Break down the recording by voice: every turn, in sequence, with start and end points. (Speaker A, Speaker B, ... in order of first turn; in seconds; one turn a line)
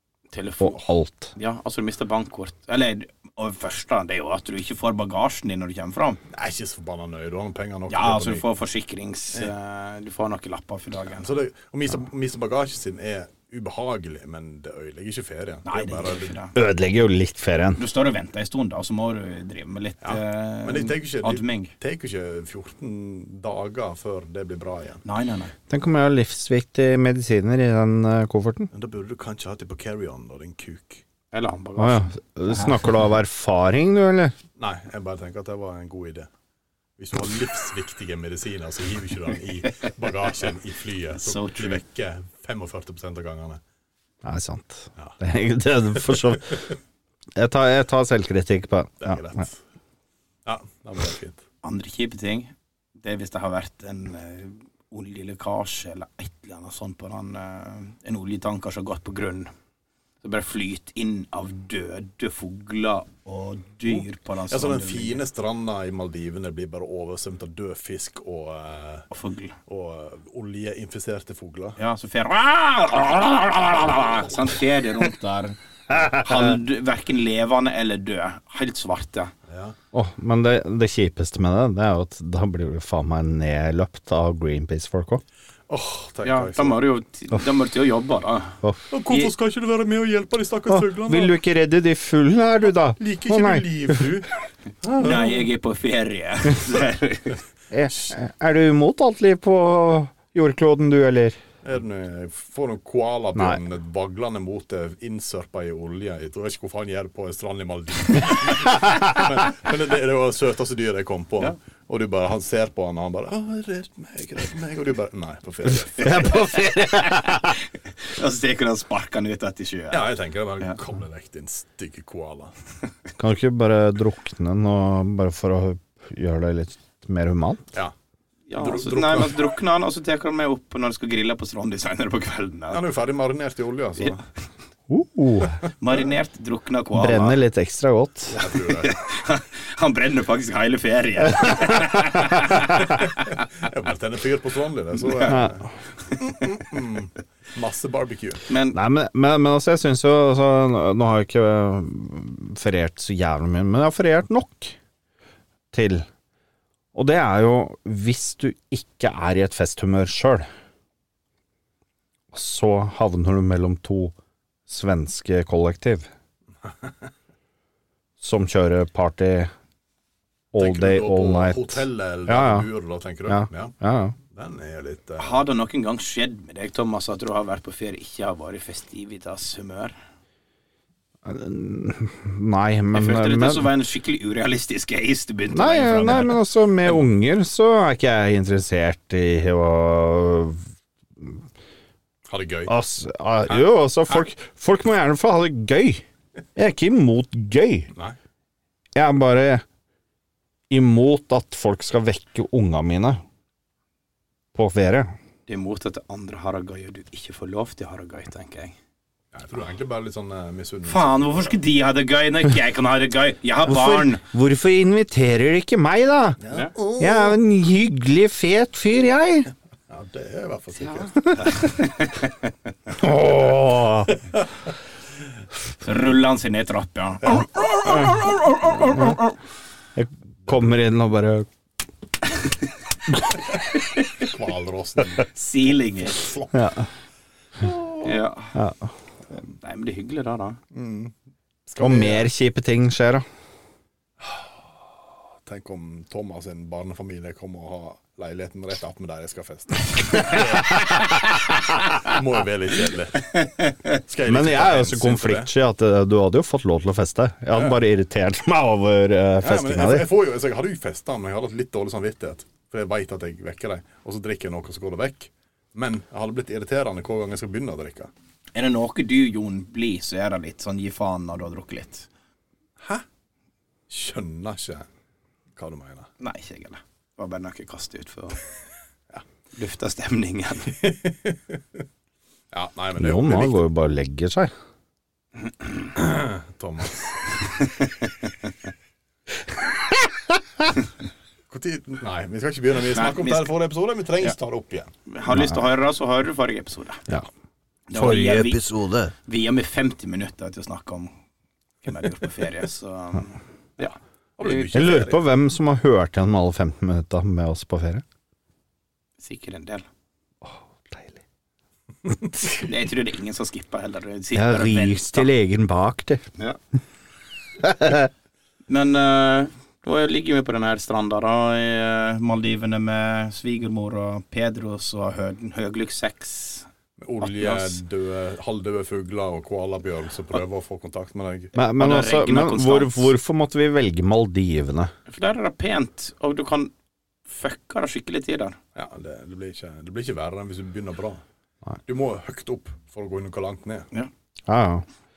Speaker A: 0.3-0.8
Speaker B: 0.6-1.3
Speaker A: 1.3-6.2
Speaker C: 6.3-8.4
Speaker A: 7.9-11.3
Speaker C: 11.1-16.4
Speaker A: 15.6-16.5
Speaker B: 16.5-17.8
Speaker A: 17.8-21.7
Speaker C: 20.0-25.0
Speaker A: 25.0-25.5
Speaker B: 25.7-28.7
Speaker C: 28.7-31.0
Speaker A: 31.3-33.1
Speaker B: 31.8-34.3
Speaker C: 34.6-36.3
Speaker C: 37.0-43.6
Speaker A: 41.1-41.8
Speaker B: 44.2-46.7
Speaker B: 47.4-49.2
Speaker C: 49.0-49.6
Speaker C: 50.5-51.4
Speaker A: 51.6-59.5
Speaker A: 60.2-65.2
Speaker C: 63.9-69.1
Speaker A: 69.1-69.5
Speaker C: 69.7-71.8
Speaker A: 71.8-79.3
Speaker B: 75.9-76.5
Speaker C: 79.5-79.8
Speaker B: 79.9-85.2
Speaker C: 85.7-86.8
Speaker A: 86.2-89.3
Speaker C: 88.9-91.3
Speaker B: 90.7-94.1
Speaker C: 93.0-94.3
Speaker C: 94.8-95.5
Speaker A: 95.0-97.4
Speaker B: 97.7-101.4
Speaker C: 101.6-116.3
Speaker B: 115.9-117.6
Speaker A: 116.0-120.8
Speaker C: 119.9-122.5
Speaker B: 123.2-127.7
Speaker A: 128.5-132.8
Speaker C: 128.6-129.5
Speaker C: 132.7-134.2
Speaker B: 134.9-135.6
Speaker A: 135.8-137.4
Speaker B: 136.9-138.4
Speaker C: 138.3-138.9
Speaker A: 138.4-143.3
Speaker C: 143.3-148.4
Speaker B: 145.2-145.6
Speaker A: 148.5-148.8
Speaker B: 148.7-154.8
Speaker B: 155.7-156.1
Speaker B: 156.9-160.4
Speaker B: 162.3-164.1
Speaker B: 164.7-166.1
Speaker B: 168.2-169.5
Speaker B: 170.5-172.7
Speaker C: 170.6-173.7
Speaker B: 173.3-174.2
Speaker C: 174.3-175.4
Speaker A: 175.2-179.9
Speaker B: 181.2-183.7
Speaker A: 182.9-186.4
Speaker B: 185.5-190.6
Speaker C: 192.3-192.7
Speaker B: 192.7-196.0
Speaker C: 193.5-194.2
Speaker B: 196.6-197.9
Speaker B: 198.9-199.6
Speaker B: 200.7-203.2
Speaker B: 204.5-205.1
Speaker A: 205.5-208.8
Speaker C: 209.3-211.6
Speaker A: 210.9-214.2
Speaker B: 213.7-216.4
Speaker C: 216.4-217.4
Speaker B: 217.0-219.5
Speaker C: 219.9-221.3
Speaker A: 220.8-222.5
Speaker B: 222.9-224.1
Speaker A: 225.8-229.2
Speaker C: 227.3-228.3
Speaker B: 228.9-229.2
Speaker B: 229.9-231.5
Speaker A: 233.7-234.1
Speaker C: 234.2-235.2
Speaker A: 235.2-236.2
Speaker C: 236.0-236.5
Speaker B: 236.5-236.9
Speaker C: 237.6-238.1
Speaker A: 238.0-238.5
Speaker B: 238.5-238.9
Speaker A: 239.3-240.6
Speaker C: 240.7-241.1
Speaker C: 241.7-242.3
Speaker B: 241.8-243.2
Speaker C: 244.2-244.5
Speaker C: 245.4-251.1
Speaker C: 251.9-253.4
Speaker C: 253.9-255.5
Speaker B: 254.2-260.1
Speaker C: 259.4-268.1
Speaker A: 268.5-272.1
Speaker C: 273.9-274.9
Speaker C: 275.6-276.1
Speaker A: 276.2-278.4
Speaker A: 279.5-280.8
Speaker C: 280.8-281.6
Speaker C: 282.5-283.6
Speaker B: 283.0-284.5
Speaker C: 285.9-287.2
Speaker A: 287.6-288.1
Speaker C: 291.5-294.9
Speaker A: 292.9-293.5
Speaker A: 295.1-297.0
Speaker A: 297.9-298.6
Speaker B: 297.9-299.1
Speaker A: 299.2-301.1
Speaker A: 301.8-304.7
Speaker C: 304.4-305.2
Speaker B: 304.7-308.0
Speaker A: 309.2-309.9
Speaker B: 310.4-311.2
Speaker A: 312.6-315.3
Speaker B: 314.3-316.2
Speaker B: 317.6-318.1
Speaker A: 318.7-326.7
Speaker C: 327.0-331.5
Speaker A: 327.2-327.8
Speaker B: 331.5-334.9
Speaker A: 331.8-333.1
Speaker A: 335.1-336.7
Speaker A: 337.3-338.6
Speaker C: 338.7-341.2
Speaker C: 341.9-343.9
Speaker B: 344.5-344.8